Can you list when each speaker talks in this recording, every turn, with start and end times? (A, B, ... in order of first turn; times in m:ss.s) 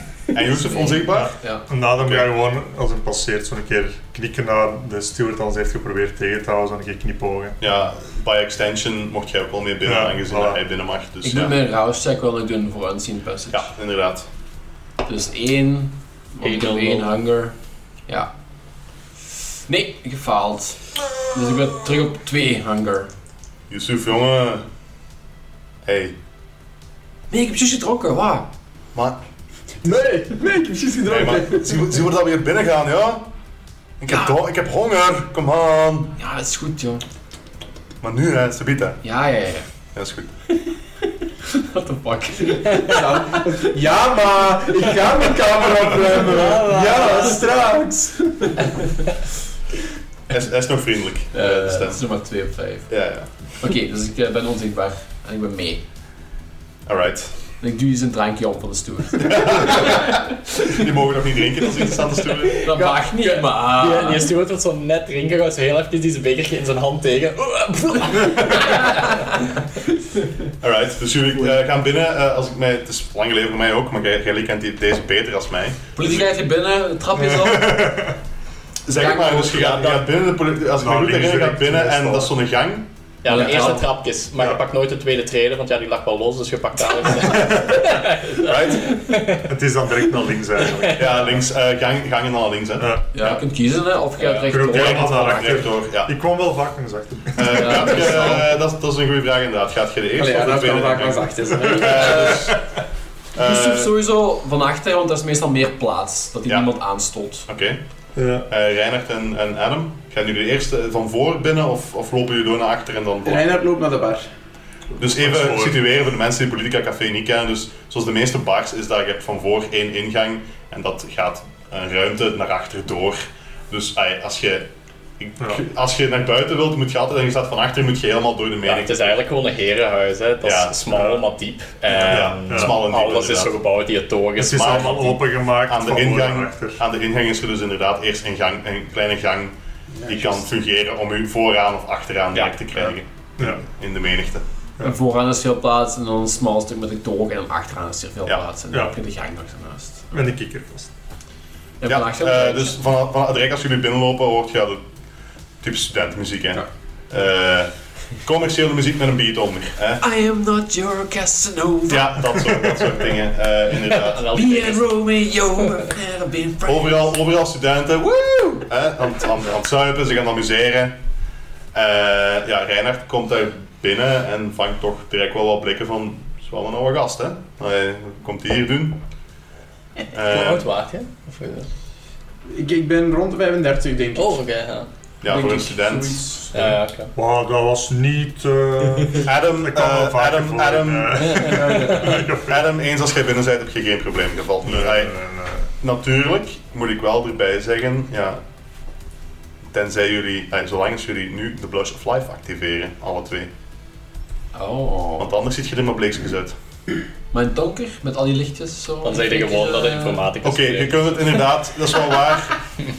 0:00.3-0:01.4 A
0:00.5-0:01.6 B
0:01.1-0:07.6 C
0:02.0-0:02.2 A
0:07.6-0:11.6 A
0:09.8-0:10.6 C
0:11.2-0:13.7 B
0:13.5-0:14.3 A
0:15.0-0:17.6 B
0:16.4-0:17.1 D
0:19.7-0:23.1 B
0:23.7-0:24.6 A
0:25.8-0:26.2 A
0:27.3-0:28.5 B
0:29.8-0:31.8 E
0:31.0-0:33.3 A
0:34.0-0:36.1 A
0:34.1-0:34.3 B
0:36.2-0:37.0 B
0:38.0-0:39.0 A
0:39.0-0:39.7 B
0:39.9-0:40.3 A
0:41.5-0:43.5 B
0:42.8-0:48.7 E
0:46.2-0:47.4 D
0:50.3-0:52.0 A
0:51.3-0:52.9 B
0:52.9-0:53.3 A
0:53.6-0:55.8 B
0:56.9-0:57.3 A
0:57.6-1:00.0 B
0:59.3-1:02.7 A
1:02.5-1:04.3 B
1:02.6-1:09.3 D
1:08.3-1:09.3 B
1:10.6-1:16.2 A
1:16.0-1:18.0 B
1:17.2-1:18.2 C
1:18.9-1:22.9 A
1:18.9-1:20.1 B
1:20.8-1:22.3 C
1:23.2-1:29.5 D
1:23.3-1:23.8 B
1:23.3-1:24.6 C
1:27.4-1:27.7 A
1:28.3-1:28.9 A
1:29.4-1:31.2 C
1:30.7-1:30.9 D
1:30.9-1:32.9 A
1:32.8-1:33.4 C
1:33.1-1:35.6 B
1:34.5-1:38.4 C
1:34.6-1:36.1 A
1:37.4-1:42.6 A
1:37.5-1:38.4 B
1:40.2-1:42.4 E
1:42.0-1:42.5 B
1:42.1-1:42.6 C
1:43.4-1:43.9 A
1:43.4-1:47.5 B
1:47.5-1:47.8 A
1:48.2-1:48.5 C
1:48.5-1:53.5 A
1:53.2-1:54.3 E
1:55.0-2:04.7 A
1:55.0-1:55.8 C
2:05.2-2:09.2 A
2:08.6-2:15.0 D
2:10.4-2:11.2 A
2:11.9-2:13.6 A
2:12.1-2:12.8 C
2:14.4-2:16.8 C
2:14.4-2:19.5 A
2:20.0-2:20.4 E
2:20.1-2:24.4 A
2:24.8-2:30.0 B
2:30.1-2:30.9 C
2:31.8-2:32.8 B
2:31.9-2:34.8 A
2:35.6-2:40.0 A
2:40.0-2:42.5 B
2:41.9-2:44.3 A
2:42.5-2:43.0 C
2:43.7-2:44.9 D
2:44.3-2:47.0 B
2:46.7-2:51.0 A
2:51.7-2:59.0 A
3:00.1-3:00.7 A
3:00.3-3:01.7 D
3:02.5-3:04.4 E
3:04.2-3:04.9 D
3:05.2-3:06.7 A
3:05.3-3:06.5 E
3:06.5-3:07.1 D
3:07.2-3:12.7 C
3:09.2-3:11.5 A
3:11.2-3:11.7 D
3:11.4-3:12.3 E
3:12.4-3:15.1 A
3:14.6-3:15.7 C
3:15.7-3:18.4 A
3:19.7-3:23.5 A
3:24.5-3:25.3 B
3:25.2-3:26.6 A
3:27.3-3:30.2 B
3:29.0-3:31.2 D
3:30.4-3:32.6 A